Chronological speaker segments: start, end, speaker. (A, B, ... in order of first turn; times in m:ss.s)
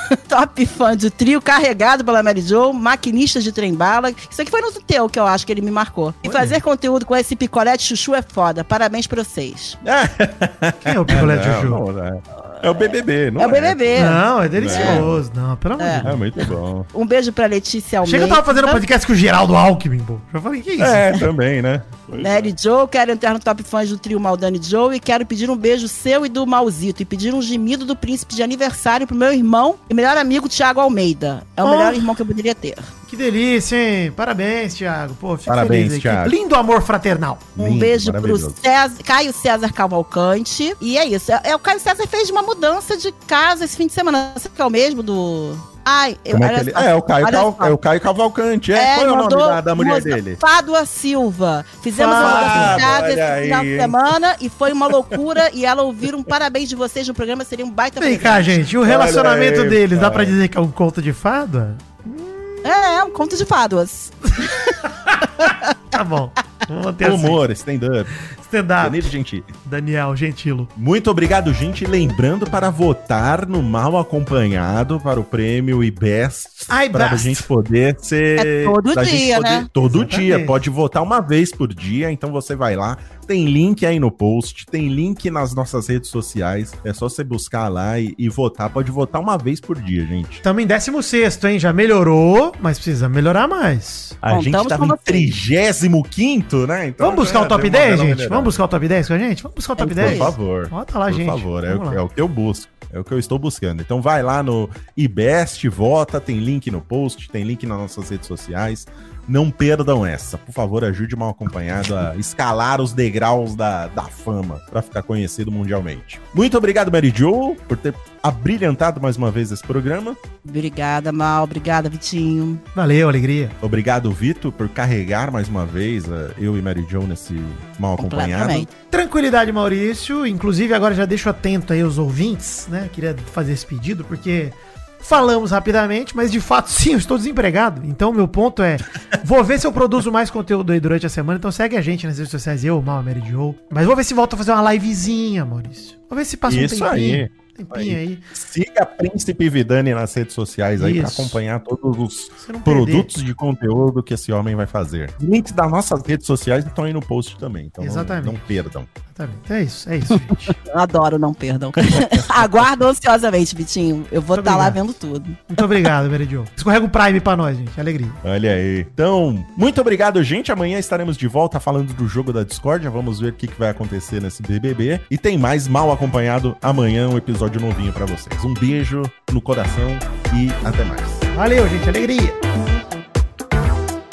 0:00.1-0:09.8 A
0:09.8-0:15.2 B
0:10.8-0:11.8 C
0:12.5-0:15.0 A
0:14.0-0:16.2 C
0:15.8-0:18.8 A
0:16.0-0:16.9 B
0:18.0-0:21.1 C
0:20.8-0:22.5 B
0:22.2-0:32.9 A
0:31.6-0:32.0 C
0:33.1-0:37.5 C
0:35.5-0:36.3 B
0:37.6-0:38.6 B
0:37.6-0:47.8 A
0:46.3-0:50.4 B
0:48.8-0:58.6 A
0:52.0-0:52.9 C
0:52.2-0:54.0 B
0:54.9-0:55.3 B
0:58.0-1:02.6 C
0:58.8-1:00.4 B
1:02.6-1:04.6 A
1:04.4-1:07.4 C
1:05.5-1:05.7 A
1:07.0-1:08.1 B
1:08.4-1:09.1 C
1:08.8-1:09.5 B
1:09.6-1:10.7 C
1:10.8-1:30.4 B
1:16.7-1:17.5 C
1:18.4-1:19.7 A
1:18.5-1:18.7 C
1:19.8-1:20.5 C
1:30.4-1:34.2 C
1:34.2-1:38.6 B
1:34.3-1:35.3 A
1:37.0-1:42.0 C
1:39.8-1:40.3 A
1:40.0-2:00.2 B
2:00.4-2:02.6 A
2:02.8-2:03.6 C
2:03.6-2:08.7 B
2:08.0-2:08.7 A
2:08.9-2:28.2 C
2:26.5-2:38.9 B
2:30.8-2:31.4 C
2:32.4-2:33.1 C
2:37.8-2:38.5 C
2:39.1-2:40.6 C
2:40.6-2:45.6 A
2:44.3-2:44.8 C
2:45.5-2:48.2 C
2:48.2-3:01.2 B
3:01.3-3:02.4 C